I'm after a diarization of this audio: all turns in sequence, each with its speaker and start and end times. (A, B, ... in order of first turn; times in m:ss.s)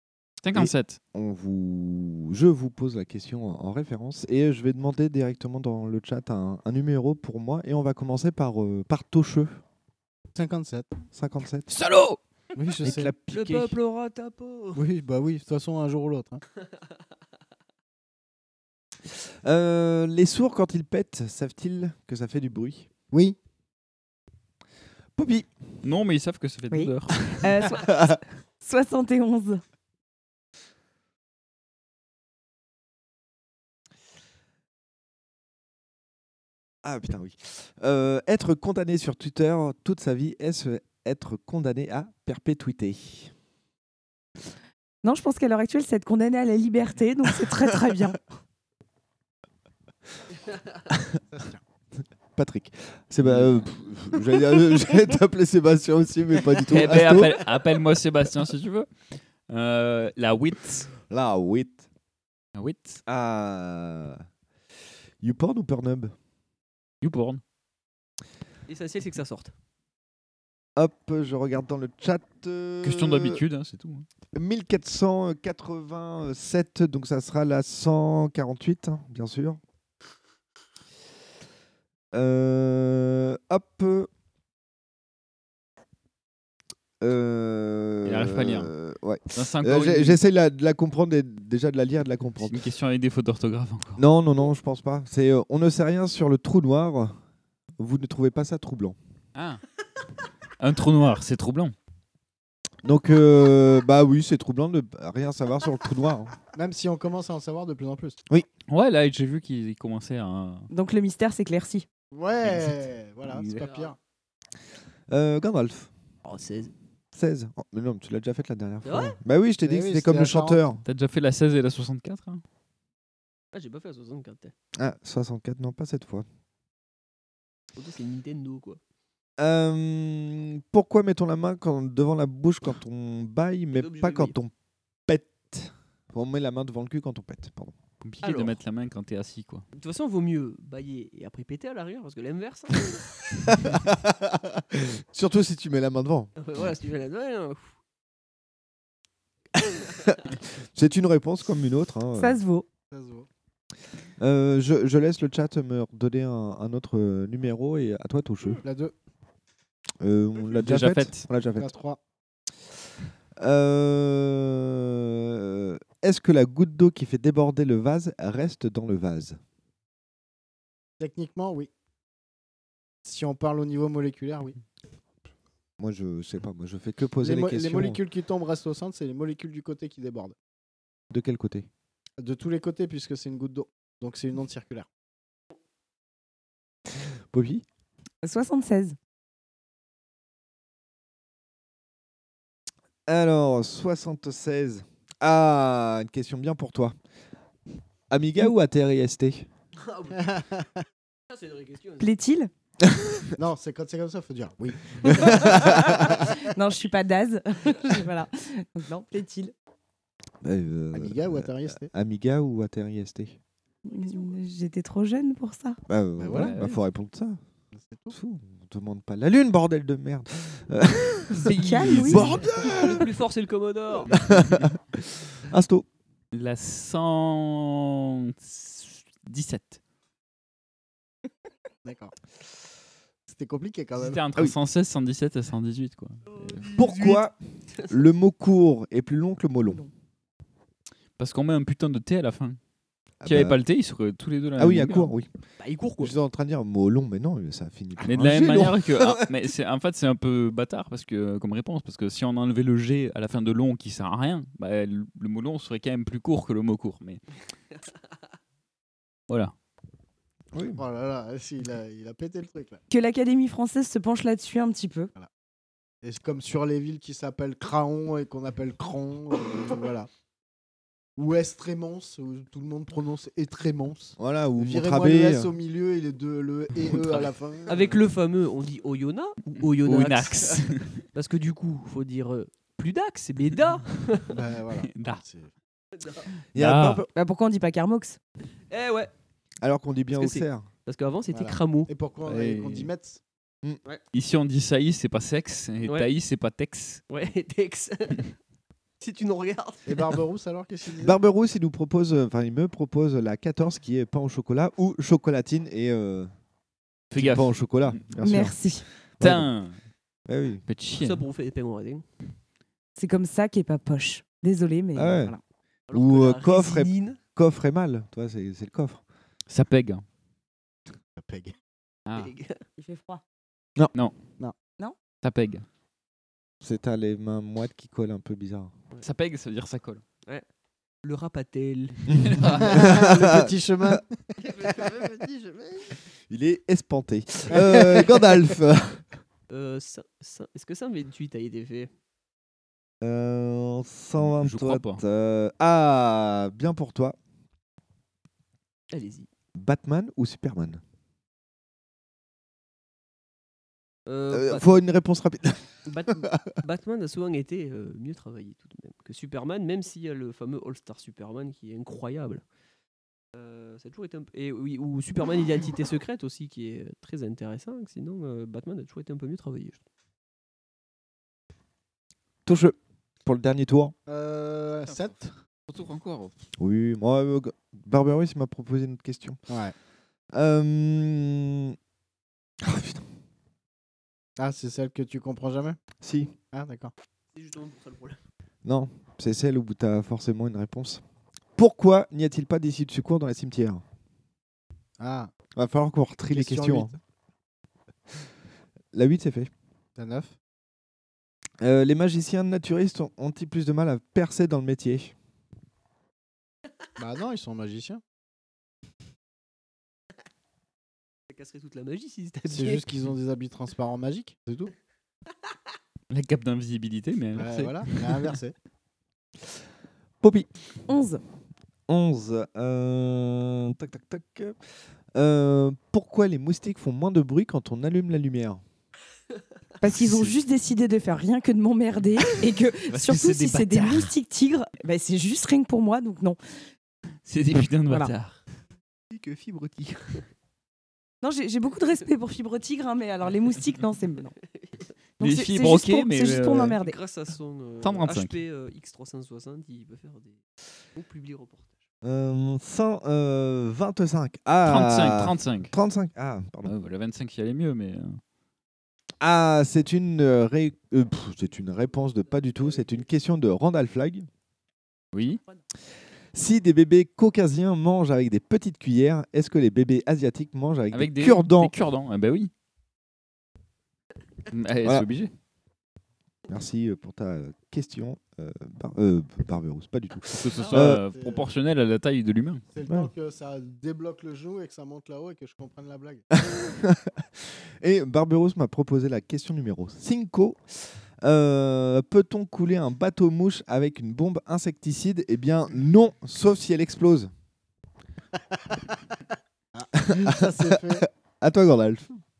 0:00.4-0:01.0 A
0:00.5-0:09.6 B
0:10.3-0:10.9 C
0:11.1-0:11.7 B
0:11.7-0:12.2 A
0:12.6-0:13.1 C
0:12.8-0:13.8 B
0:13.3-0:14.8 D
0:14.8-0:16.4 C
0:19.1-0:22.9 B
0:23.1-0:23.4 C
0:25.2-0:25.5 B
0:25.8-0:27.4 A
0:26.7-0:29.6 E
0:27.8-0:28.2 B
0:36.8-0:43.3 B
0:45.0-0:48.2 E
0:51.3-0:51.6 C
0:52.4-0:57.6 B
0:53.2-0:53.6 A
0:56.7-0:58.9 A
0:59.5-1:00.9 A
1:01.1-1:01.8 B
1:02.5-1:03.0 A
1:03.1-1:04.2 B
1:05.2-1:06.1 B
1:07.0-1:07.4 A
1:08.7-1:09.5 D
1:10.8-1:13.4 B
1:12.8-1:14.0 A
1:14.3-1:19.6 B
1:22.1-1:24.1 B
1:27.0-1:32.6 B
1:28.0-1:28.7 A
1:29.3-1:30.2 A
1:32.4-1:34.0 A
1:34.0-1:37.2 B
1:37.8-1:39.0 B
1:39.3-1:39.6 A
1:40.6-1:41.7 A
1:42.8-1:46.3 B
1:46.5-1:48.2 C
1:48.7-1:50.7 A
1:50.7-1:51.8 E
1:52.1-1:54.0 C
1:53.3-1:54.0 D
1:55.1-1:55.9 B
1:56.2-1:56.7 D
1:57.1-2:00.8 B
1:58.8-1:59.2 D
1:59.6-2:00.6 C
2:00.8-2:02.4 A
2:03.5-2:04.5 D
2:04.8-2:06.2 B
2:07.8-2:08.8 D
2:09.4-2:14.5 B
2:13.7-2:14.4 D
2:15.1-2:17.8 B
2:18.0-2:19.6 A
2:18.2-2:18.6 D
2:19.7-2:23.0 D
2:23.4-2:26.3 B
2:26.4-2:27.8 D
2:29.6-2:32.4 B
2:32.2-2:32.7 E
2:32.9-2:33.3 C
2:34.2-2:38.6 B
2:38.6-2:38.9 C
2:40.0-2:41.7 B
2:40.6-2:41.3 A
2:41.6-2:42.0 C
2:43.4-2:49.4 B
2:51.0-2:51.7 C
2:53.0-2:54.6 C
2:55.8-2:58.0 B
2:57.2-3:00.4 C
3:01.1-3:01.7 B
3:02.2-3:04.9 C
3:07.3-3:07.6 B
3:08.2-3:09.0 E
3:13.1-3:16.9 B
3:18.1-3:19.5 B
3:19.8-3:20.3 D
3:20.1-3:20.8 C
3:21.3-3:22.1 D
3:22.0-3:22.5 E
3:22.9-3:23.2 B
3:23.4-3:25.5 C
3:25.1-3:26.0 B
3:25.5-3:29.5 E
3:30.4-3:33.4 B
3:30.9-3:31.9 C
3:33.8-3:35.8 E
3:35.9-3:37.4 B
3:36.2-3:36.5 C
3:36.3-3:36.8 A
3:37.8-3:38.1 C
3:38.1-3:43.1 B
3:41.4-3:42.5 A
3:41.6-3:42.3 E
3:42.6-3:44.4 D
3:44.1-3:45.8 B
3:46.3-3:49.8 A
3:51.8-3:52.1 C
3:53.3-3:54.2 C
3:54.0-3:56.7 A
3:56.4-3:57.2 D
3:56.7-3:59.8 B
4:01.2-4:02.6 A
4:03.2-4:03.6 B
4:03.2-4:05.1 A
4:04.6-4:05.3 B
4:05.6-4:06.1 D
4:06.0-4:09.3 B
4:08.0-4:17.2 A
4:20.5-4:20.8 B
4:20.8-4:22.8 C
4:22.9-4:25.1 E
4:26.0-4:30.1 C
4:31.2-4:38.0 C
4:34.2-4:35.5 B
4:37.7-4:44.4 D
4:39.5-4:41.0 A
4:44.3-4:45.5 C
4:44.9-4:45.2 A
4:45.9-4:46.3 D
4:46.5-4:47.0 A
4:46.5-4:47.1 B
4:47.1-4:48.2 E
4:48.7-4:49.1 D
4:49.6-4:50.7 B
4:50.1-4:51.9 D
4:51.3-4:53.2 C
4:52.2-4:52.9 A
4:54.1-4:57.0 A
4:55.8-4:56.1 D
4:57.1-4:58.3 D
4:59.0-5:00.1 D
4:59.8-5:01.2 C
5:01.0-5:06.3 B
5:07.1-5:08.1 A
5:07.1-5:08.6 B
5:08.2-5:08.8 E
5:09.2-5:09.5 B
5:09.2-5:09.8 A
5:10.2-5:10.6 B
5:10.7-5:11.2 A
5:11.0-5:12.0 D
5:13.0-5:15.4 E
5:14.9-5:15.3 B
5:15.9-5:17.2 D
5:15.9-5:19.0 B
5:19.5-5:20.0 A
5:21.2-5:21.5 C
5:22.1-5:22.3 A
5:22.1-5:22.6 D
5:22.8-5:23.2 E
5:25.2-5:25.6 A
5:26.6-5:28.7 B
5:29.0-5:30.0 A
5:31.0-5:32.3 D
5:32.1-5:34.0 B
5:32.2-5:32.8 A
5:32.6-5:34.2 C
5:34.4-5:35.9 D
5:36.3-5:39.0 B
5:37.5-5:38.2 C
5:39.5-5:41.9 D
5:43.0-5:47.2 B
5:44.2-5:45.0 A
5:48.9-5:49.3 D
5:49.6-5:50.8 B
5:54.1-5:54.8 D
5:54.3-5:56.4 B
5:55.9-6:02.4 D
6:03.3-6:09.8 D
6:12.4-6:13.9 B
6:14.1-6:15.3 C
6:14.8-6:15.1 A
6:15.7-6:16.3 A
6:16.6-6:19.4 B
6:19.5-6:19.7 C
6:20.3-6:21.8 B
6:22.6-6:23.0 B
6:24.4-6:25.8 C
6:26.0-6:26.3 B
6:26.5-6:26.9 C
6:27.3-6:28.2 D
6:28.6-6:31.0 B
6:31.6-6:33.8 B
6:35.0-6:35.3 C
6:35.6-6:36.9 B
6:36.3-6:37.0 C
6:38.9-6:39.5 B
6:40.0-6:40.3 C
6:41.6-6:45.1 B
6:47.0-6:48.0 C
6:51.3-6:52.9 D
6:52.5-6:54.7 C
6:56.1-6:58.4 A
6:57.4-6:58.5 C
7:00.2-7:00.5 B
7:00.9-7:01.2 E
7:01.9-7:04.6 B
7:05.1-7:08.6 B
7:09.8-7:16.4 E
7:12.9-7:14.1 A
7:17.2-7:18.4 A
7:17.9-7:18.1 E
7:19.1-7:20.2 D
7:21.2-7:24.3 E
7:24.6-7:24.8 D
7:25.2-7:27.0 E
7:25.2-7:26.8 A
7:26.8-7:30.4 D
7:27.8-7:28.4 A
7:31.0-7:31.8 D
7:32.0-7:36.8 B
7:34.6-7:35.7 A
7:36.6-7:38.2 A
7:39.2-7:44.3 B
7:45.1-7:45.4 A
7:46.3-7:51.7 B
7:50.9-7:52.5 A
7:54.5-7:55.3 A
7:56.5-8:01.0 B
8:00.3-8:02.6 A
8:00.7-8:01.4 C
8:02.7-8:06.2 C
8:06.4-8:17.3 B
8:19.7-8:21.0 C
8:20.0-8:22.2 B